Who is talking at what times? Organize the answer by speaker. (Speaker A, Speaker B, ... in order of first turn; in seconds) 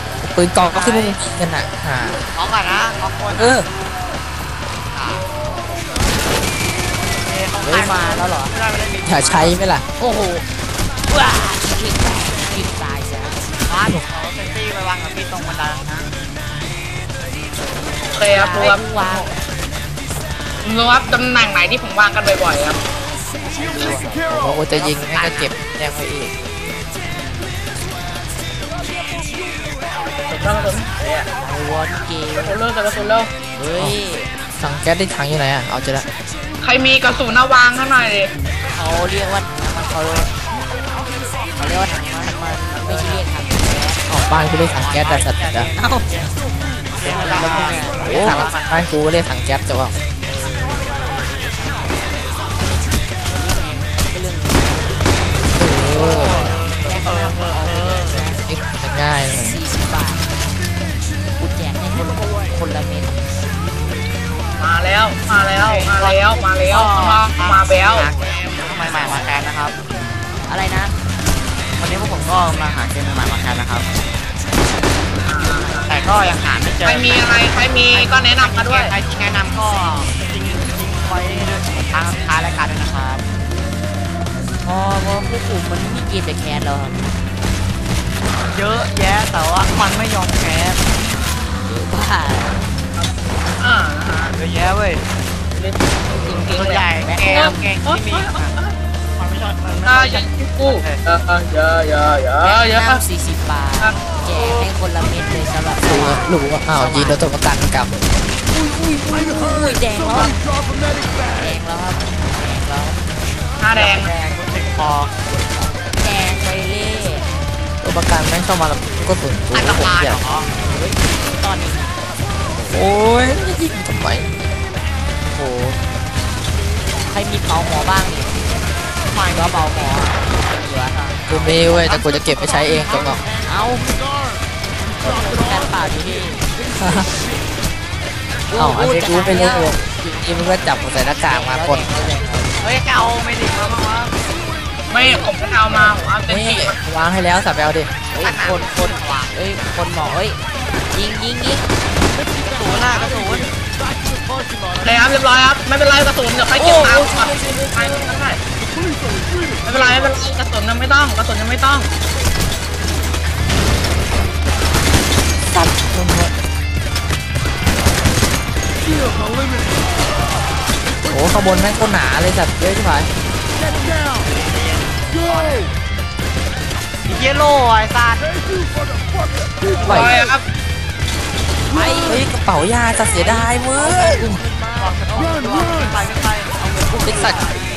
Speaker A: 0.3-2.2, 3.3-3.7, 9.1-9.8, 24.3-26.3, 34.6-36.1, 44.1-45.7, 47.2-49.9, 55.5-56.4, 58.5-59.6, 105.9-107.9, 117.8-120.2, 122.7-124.3, 131.3-133.2, 136.8-137.1, 138.6-141.9, 146.3-147.9, 165.5-166.3, 171.1-173.1, 179.8-180.2, 182.1-184.4, 187.0-187.4
Speaker B: 0.6-1.2, 2.3-3.6, 4.9-5.2, 7.2-9.6, 13.7-16.1, 24.7-25.6, 42.9-43.1, 44.7-46.3, 46.9-48.7, 55.9-58.2, 65.5-69.8, 71.8-73.9, 75.9-83.2, 88.5-90.8, 94.3-95.0, 96.5-98.6, 99.2-101.0, 113.8-115.1, 119.5-120.5, 129.1-129.9, 130.9-131.3, 142.6-144.1, 148.2-149.3, 152.5-153.5, 174.2-175.7, 177.1-178.3, 184.8-187.3
Speaker C: 7.6-8.6, 10.0-10.4, 11.1-13.5, 18.3-19.3, 23.5-24.2, 31.4-32.6, 33.6-34.3, 38.7-40.3, 41.6-44.0, 45.8-46.1, 47.0-48.5, 50.2-52.4, 53.3-55.0, 55.5-58.4, 59.3-60.2, 61.4-63.2, 68.9-69.3, 70.5-71.0, 84.6-87.0, 91.7-92.6, 97.0-97.7, 102.4-107.3, 108.8-110.4, 111.3-113.0, 116.0-117.3, 120.5-122.0, 125.3-125.8, 127.0-128.6, 129.3-132.0, 133.4-134.0, 135.0-136.4, 138.5-139.8, 141.2-142.6, 148.1-150.4, 150.9-151.7, 156.5-158.2, 181.7-182.3, 182.9-185.2, 186.6-187.5
Speaker D: 18.1-19.3, 20.6-22.8, 30.3-31.3, 32.4-33.3, 36.6-38.3, 64.6-68.1, 75.3-76.0, 76.8-79.0, 93.0-94.3, 95.5-98.7, 99.9-103.0, 113.6-114.1, 144.9-146.8, 154.8-158.4, 159.7-161.9, 179.8-180.4